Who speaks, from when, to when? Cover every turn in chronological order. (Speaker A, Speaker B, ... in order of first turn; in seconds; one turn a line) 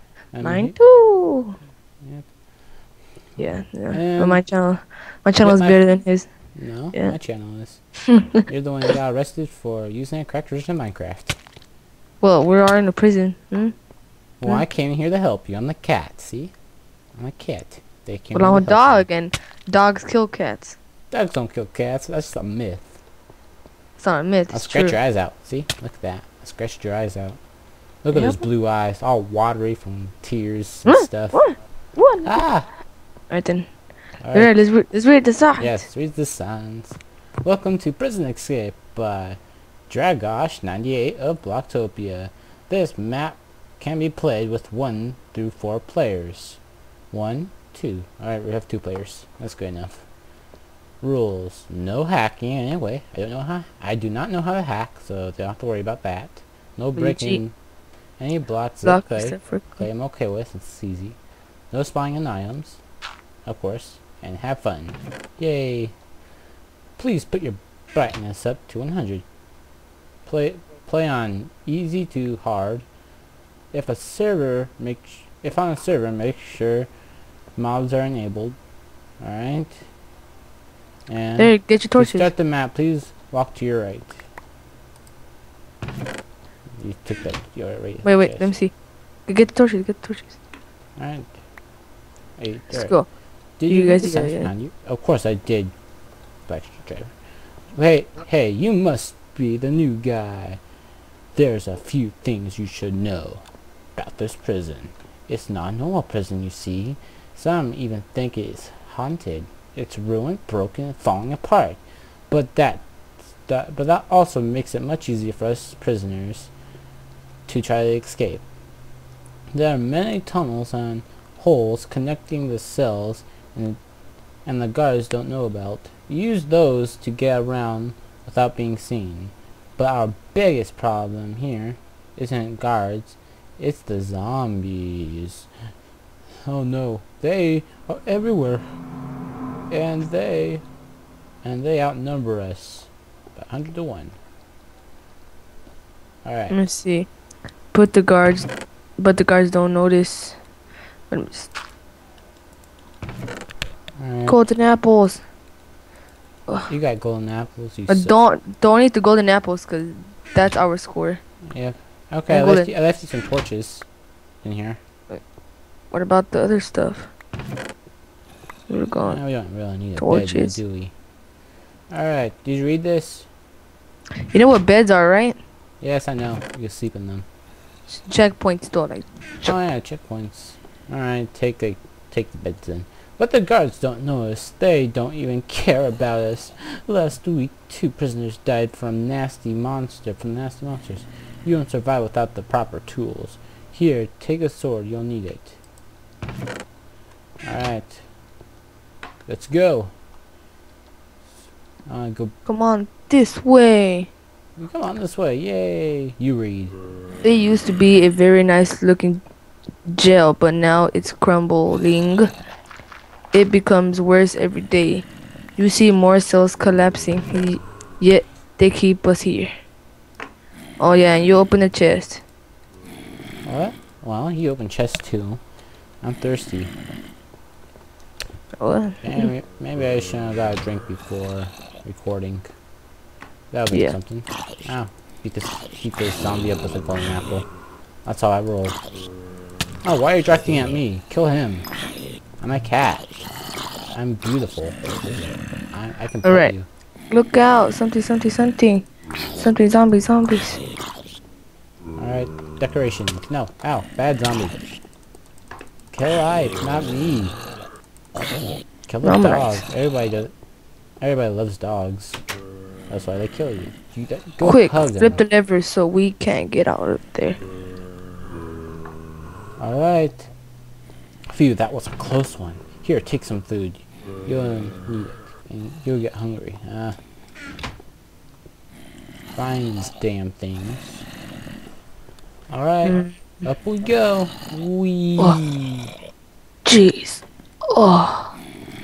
Speaker A: 0.3-0.8
Speaker B: 0.4-1.6
Speaker A: 2.0-2.3
Speaker A: 3.4-4.4
Speaker B: 3.4-6.3
Speaker A: 5.4-5.8
Speaker A: 6.5-7.8
Speaker B: 8.1-8.4
Speaker A: 8.5-11.4
Speaker B: 12.2-13.8
Speaker A: 14.4-16.5
Speaker A: 17.2-19.1
Speaker B: 18.3-20.8
Speaker A: 21.1-23.0
Speaker B: 24.0-25.0
Speaker A: 24.5-27.4
Speaker A: 28.0-31.4
Speaker B: 28.1-28.4
Speaker B: 30.9-32.4
Speaker A: 32.2-32.7
Speaker B: 33.3-33.7
Speaker A: 34.2-34.5
Speaker B: 34.3-35.8
Speaker A: 35.6-50.1
Speaker A: 51.0-57.5
Speaker B: 57.0-57.4
Speaker A: 58.2-61.2
Speaker B: 58.8-59.9
Speaker A: 61.7-62.8
Speaker A: 63.5-65.9
Speaker A: 67.0-69.2
Speaker A: 70.3-72.9
Speaker A: 73.7-76.9
Speaker A: 77.6-78.6
Speaker A: 79.2-79.8
Speaker A: 81.1-84.2
Speaker B: 81.4-82.3
Speaker A: 86.8-88.5
Speaker B: 88.0-88.7
Speaker B: 89.3-90.4
Speaker A: 91.0-91.4
Speaker A: 92.4-93.0
Speaker B: 92.7-93.1
Speaker A: 93.6-95.7
Speaker B: 93.7-94.5
Speaker A: 96.5-97.1
Speaker A: 97.7-100.6
Speaker A: 101.3-103.4
Speaker A: 104.0-116.5
Speaker A: 117.5-118.5
Speaker A: 119.5-123.8
Speaker A: 124.5-135.5
Speaker A: 136.5-138.6
Speaker A: 139.7-140.6
Speaker A: 141.4-144.2
Speaker A: 146.2-146.6
Speaker B: 146.5-147.1
Speaker B: 147.7-150.4
Speaker B: 151.1-151.5
Speaker A: 154.0-154.4
Speaker B: 154.3-155.2
Speaker A: 156.7-158.2
Speaker B: 157.9-161.2
Speaker A: 161.5-163.9
Speaker B: 162.3-162.7
Speaker A: 164.4-164.8
Speaker B: 165.9-167.1
Speaker B: 168.7-169.2
Speaker A: 169.0-170.9
Speaker B: 170.0-170.6
Speaker A: 171.9-173.3
Speaker B: 174.3-175.4
Speaker A: 175.8-177.3
Speaker B: 177.9-179.6
Speaker A: 179.4-195.6
Speaker A: 197.4-198.0
Speaker A: 199.3-199.9
Speaker A: 201.9-202.3
Speaker B: 202.5-204.1
Speaker A: 204.6-206.8
Speaker B: 207.2-209.2
Speaker B: 209.9-212.3
Speaker B: 213.3-219.5
Speaker B: 220.8-222.2
Speaker A: 223.4-225.4
Speaker A: 226.0-226.7
Speaker B: 228.6-229.3
Speaker A: 229.0-232.5
Speaker A: 233.5-237.5
Speaker B: 233.7-234.0
Speaker A: 238.1-238.8
Speaker A: 239.8-241.7
Speaker A: 242.4-243.3
Speaker A: 243.9-244.8
Speaker A: 245.7-246.7
Speaker B: 246.2-246.5
Speaker B: 247.1-250.6
Speaker A: 252.0-254.6
Speaker A: 255.9-257.4
Speaker A: 258.9-260.3
Speaker B: 259.0-259.6
Speaker A: 261.0-262.2
Speaker A: 262.9-265.2
Speaker B: 264.4-267.4
Speaker A: 269.6-270.3
Speaker A: 271.3-277.0
Speaker A: 279.4-281.1
Speaker A: 282.5-285.9
Speaker B: 282.8-283.2
Speaker B: 286.6-288.4